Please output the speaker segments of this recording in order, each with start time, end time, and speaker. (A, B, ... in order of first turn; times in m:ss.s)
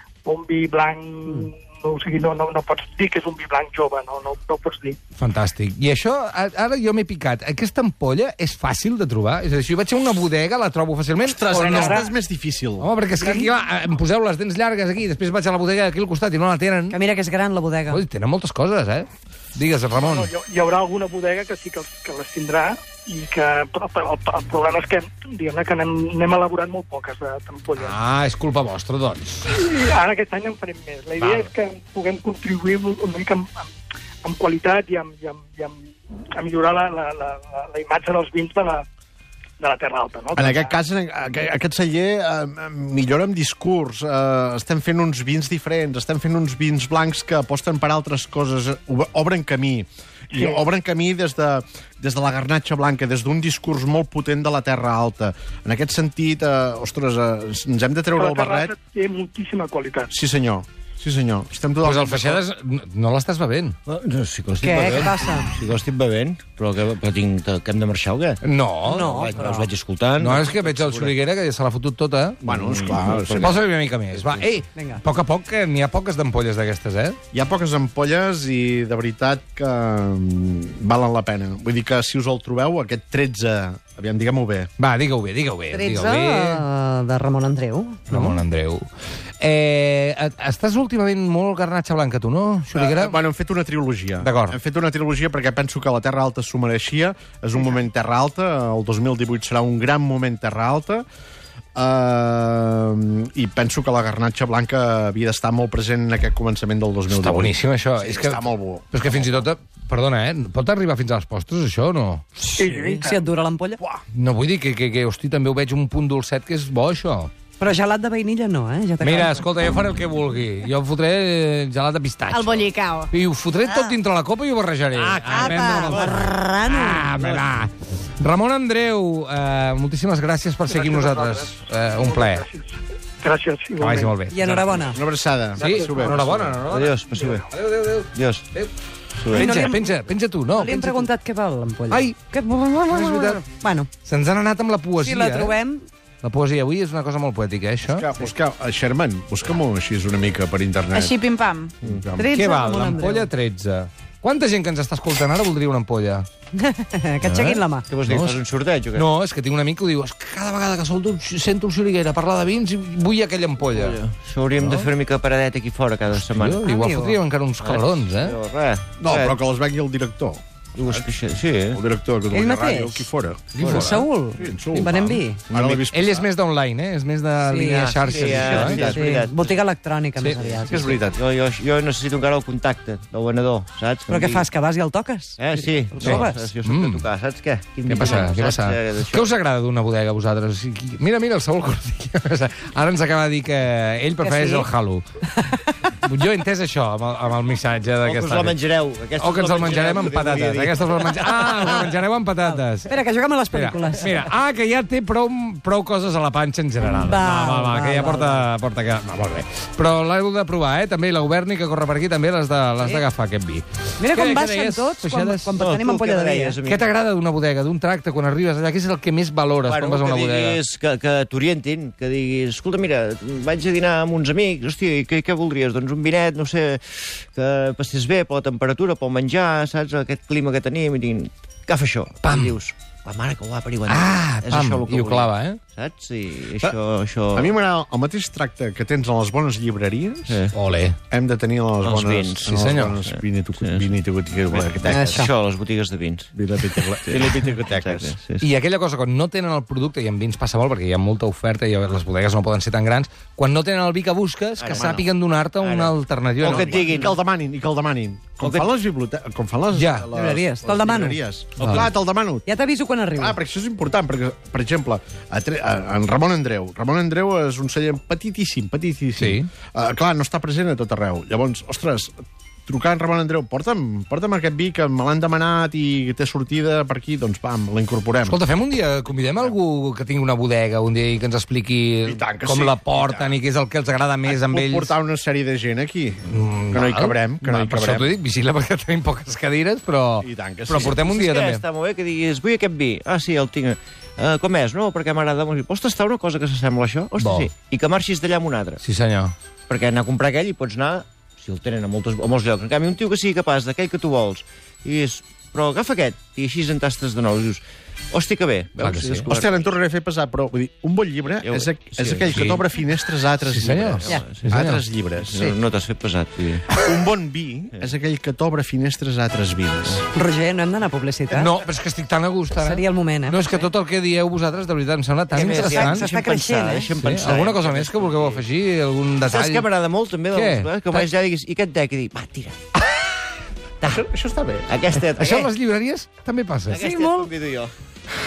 0:00.2-0:05.0 A
0:05.2-0:12.0 B
0:11.2-0:12.9 C
0:11.5-0:12.1 A
0:12.8-0:17.0 B
0:13.2-0:13.5 A
0:16.9-0:18.0 D
0:17.9-0:20.3 B
0:19.9-0:28.0 A
0:27.8-0:29.5 B
0:29.5-0:33.7 A
0:31.2-0:31.5 B
0:34.2-0:38.8 A
0:39.6-0:40.8 A
0:40.3-0:58.7 C
0:50.3-0:50.6 A
0:58.1-1:00.1 A
1:00.1-1:02.4 C
1:01.8-1:03.8 B
1:03.8-1:08.4 E
1:04.6-1:05.5 D
1:08.4-1:09.4 B
1:08.8-1:09.7 D
1:09.1-1:11.1 E
1:10.2-1:12.4 B
1:12.4-1:13.6 C
1:12.5-1:13.5 E
1:13.3-1:17.2 B
1:14.1-1:14.5 E
1:14.7-1:15.0 D
1:17.3-1:24.7 C
1:24.8-1:26.6 B
1:25.7-1:28.4 D
1:28.1-1:28.9 B
1:29.4-1:33.2 B
1:32.7-1:41.0 C
1:34.2-1:34.6 B
1:41.7-1:49.5 C
1:47.1-1:52.4 B
1:52.4-1:53.8 D
1:52.6-1:53.2 A
1:54.1-1:57.3 B
1:57.6-1:59.5 D
1:59.0-2:12.4 B
2:02.3-2:03.1 F
2:03.7-2:03.9 F
2:05.2-2:06.0 E
2:05.2-2:06.3 F
2:06.0-2:07.2 D
2:10.7-2:14.2 A
2:13.8-2:14.8 B
2:14.3-2:15.0 D
2:14.8-2:16.6 C
2:15.6-2:16.2 A
2:15.6-2:18.7 B
2:16.7-2:17.5 E
2:18.1-2:18.4 E
2:19.2-2:19.5 E
2:19.3-2:21.1 B
2:19.3-2:20.0 D
2:20.5-2:23.9 D
2:21.9-2:22.1 B
2:22.9-2:23.4 B
2:24.0-2:25.6 B
2:25.0-2:25.9 D
2:26.2-2:28.1 B
2:27.8-2:31.2 C
2:30.9-2:31.7 F
2:31.8-2:32.4 C
2:32.1-2:33.3 D
2:32.3-2:36.2 B
2:36.6-2:37.8 D
2:37.2-2:38.4 B
2:37.9-2:39.1 E
2:38.9-2:44.0 B
2:43.6-2:46.6 E
2:44.6-2:44.9 B
2:46.1-2:48.4 B
2:46.6-2:47.2 D
2:47.6-2:49.4 E
2:49.0-2:51.1 C
2:50.8-2:51.8 E
2:51.7-2:56.3 C
2:52.3-2:55.4 D
2:53.5-2:54.1 B
2:55.5-2:55.8 E
2:55.9-2:58.9 B
2:57.4-3:01.0 D
2:57.8-2:59.6 E
3:00.2-3:00.5 B
3:00.6-3:01.2 C
3:01.1-3:04.5 E
3:04.1-3:06.5 D
3:05.4-3:09.3 E
3:06.0-3:07.0 B
3:07.8-3:15.0 B
3:14.2-3:14.7 D
3:15.4-3:15.7 D
3:15.9-3:18.6 B
3:18.0-3:21.9 E
3:19.2-3:23.0 B
3:22.4-3:24.3 D
3:23.5-3:35.6 B
3:26.8-3:28.5 D
3:34.0-3:36.6 D
3:35.6-3:36.9 E
3:36.6-3:40.6 B
3:39.6-3:57.6 E
3:52.2-3:52.6 B
3:53.9-3:55.6 B
3:57.3-4:00.4 C
4:00.3-4:00.5 E
4:00.5-4:01.0 B
4:01.1-4:05.3 C
4:01.8-4:02.5 E
4:02.4-4:03.0 B
4:03.0-4:03.9 E
4:04.5-4:06.3 E
4:04.9-4:05.3 D
4:06.3-4:08.1 C
4:07.0-4:08.4 E
4:08.4-4:17.0 B
4:14.6-4:15.1 E
4:15.6-4:15.9 E
4:16.4-4:22.5 C
4:16.4-4:17.1 E
4:18.4-4:18.7 E
4:19.7-4:20.1 B
4:20.1-4:21.2 D
4:21.6-4:21.9 B
4:22.5-4:23.4 D
4:23.1-4:32.1 C
4:29.2-4:29.5 B
4:32.7-4:38.4 C
4:38.2-4:44.9 B
4:39.2-4:39.5 C
4:42.0-4:43.4 C
4:44.2-4:48.1 C
4:46.3-4:51.6 B
4:50.2-4:51.0 C
4:50.8-4:58.8 E
4:57.2-4:57.5 B
4:58.8-4:59.3 B
4:59.7-5:09.7 E
5:08.8-5:09.3 B
5:09.2-5:15.5 C
5:11.4-5:12.5 E
5:12.3-5:12.6 B
5:13.4-5:14.8 B
5:14.0-5:14.4 E
5:15.2-5:16.7 E
5:16.8-5:20.0 C
5:20.1-5:21.5 D
5:21.3-5:26.1 B
5:22.5-5:23.4 D
5:25.3-5:28.4 E
5:25.6-5:26.9 D
5:27.0-5:29.6 B
5:29.2-5:32.6 E
5:30.3-5:31.1 B
5:33.8-5:34.7 C
5:34.7-5:35.5 E
5:34.9-5:36.8 B
5:36.7-5:37.7 E
5:36.8-5:37.3 D